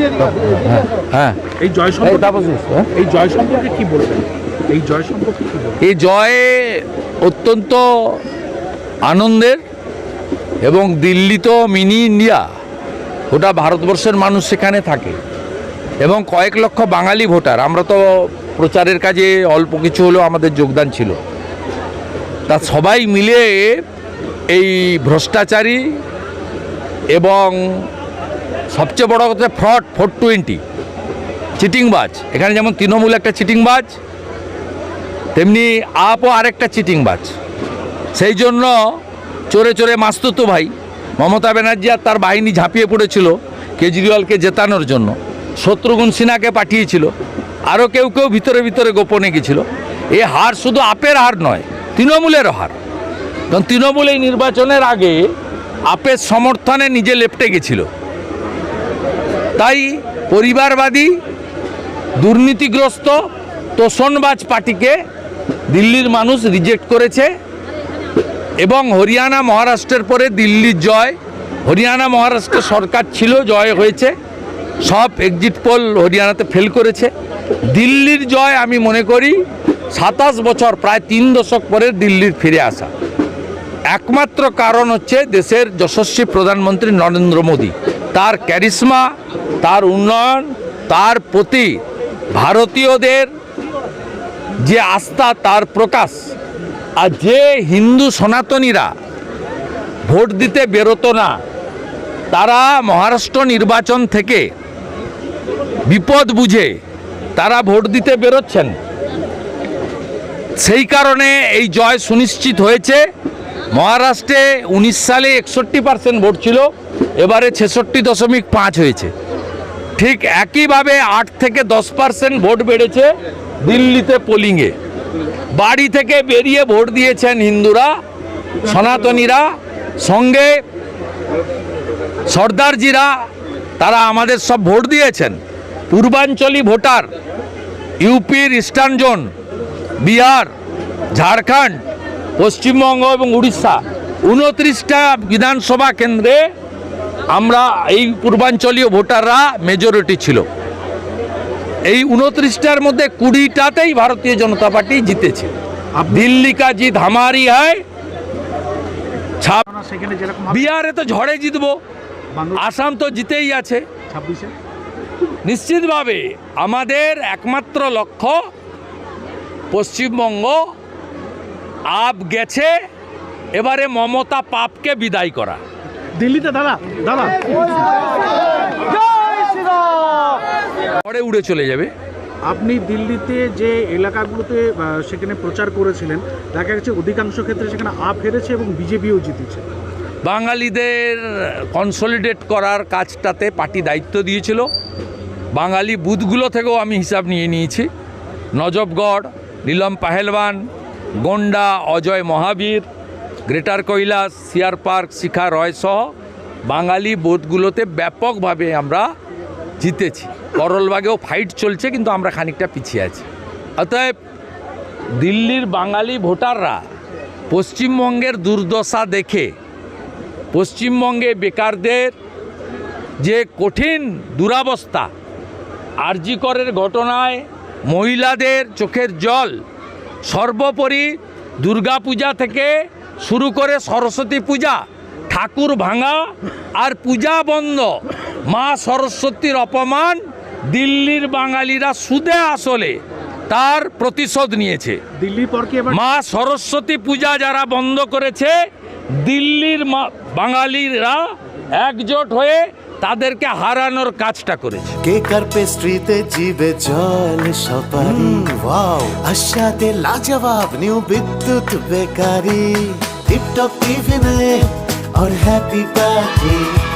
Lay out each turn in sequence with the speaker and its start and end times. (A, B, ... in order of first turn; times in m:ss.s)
0:00.6-0:01.4 A
0:01.6-0:02.4 B
0:02.0-0:02.9 A
0:02.9-0:05.8 B
0:05.8-0:08.2 A
0:09.0-0:09.6 A
0:10.6-0:12.4 A
0:13.3-0:15.2 A
0:16.0-0:21.2 A
0:22.5-0:23.8 A
0:24.5-0:25.9 A
0:27.1-0:27.9 A
0:28.7-0:30.6 A
0:31.6-0:34.0 A
0:35.3-0:37.3 A
0:38.1-0:38.7 A
0:39.5-0:47.1 A
0:47.7-0:52.8 A
0:53.5-0:55.3 A
0:55.9-0:57.9 A
0:59.6-1:01.1 A
1:02.2-1:03.2 A
1:03.8-1:05.0 A
1:05.7-1:07.3 A
1:08.6-1:14.1 A
1:14.8-1:17.1 A
1:17.7-1:19.4 A
1:19.9-1:22.9 A
1:23.9-1:29.1 A
1:29.6-1:31.8 A
1:32.3-1:33.3 A
1:34.6-1:36.3 A
1:37.0-1:38.9 A
1:40.0-1:41.4 A
1:42.3-1:44.5 A
1:45.9-1:46.7 A
1:47.4-1:48.7 A
1:50.6-1:53.0 A
1:53.7-1:59.1 A
2:00.0-2:03.1 A
2:03.6-2:04.7 A
2:05.5-2:07.9 A
2:08.6-2:09.5 A
2:10.0-2:10.6 A
2:12.3-2:13.1 A
2:13.8-2:15.4 A
2:15.9-2:17.1 A
2:18.0-2:19.3 A
2:20.0-2:20.5 A
2:21.1-2:21.8 A
2:22.4-2:26.4 A
2:27.3-2:30.4 A
2:31.9-2:35.5 A
2:35.9-2:36.3 B
2:36.1-2:37.8 A
2:39.4-2:39.6 A
2:39.7-2:40.7 B
2:40.5-2:41.8 A
2:42.3-2:42.6 B
2:42.5-2:43.8 A
2:44.1-2:44.5 B
2:45.4-2:48.4 A
2:49.7-2:50.6 A
2:51.9-2:52.7 A
2:53.5-2:55.6 A
2:56.2-2:57.5 B
3:01.0-3:01.9 A
3:02.4-3:09.6 B
3:10.2-3:14.7 A
3:15.5-3:17.9 A
3:18.5-3:20.6 A
3:21.2-3:22.8 A
3:23.5-3:26.1 A
3:26.7-3:29.1 A
3:29.8-3:33.3 A
3:33.8-3:34.1 A
3:35.2-3:36.8 A
3:37.5-3:39.5 A
3:40.5-3:42.1 A
3:43.2-3:45.1 A
3:46.0-3:49.6 A
3:50.2-3:52.7 A
3:53.2-3:56.2 A
3:56.8-4:05.0 A
4:05.2-4:06.0 B
4:05.9-4:08.6 A
4:09.2-4:11.2 A
4:11.7-4:15.0 A
4:15.0-4:26.7 C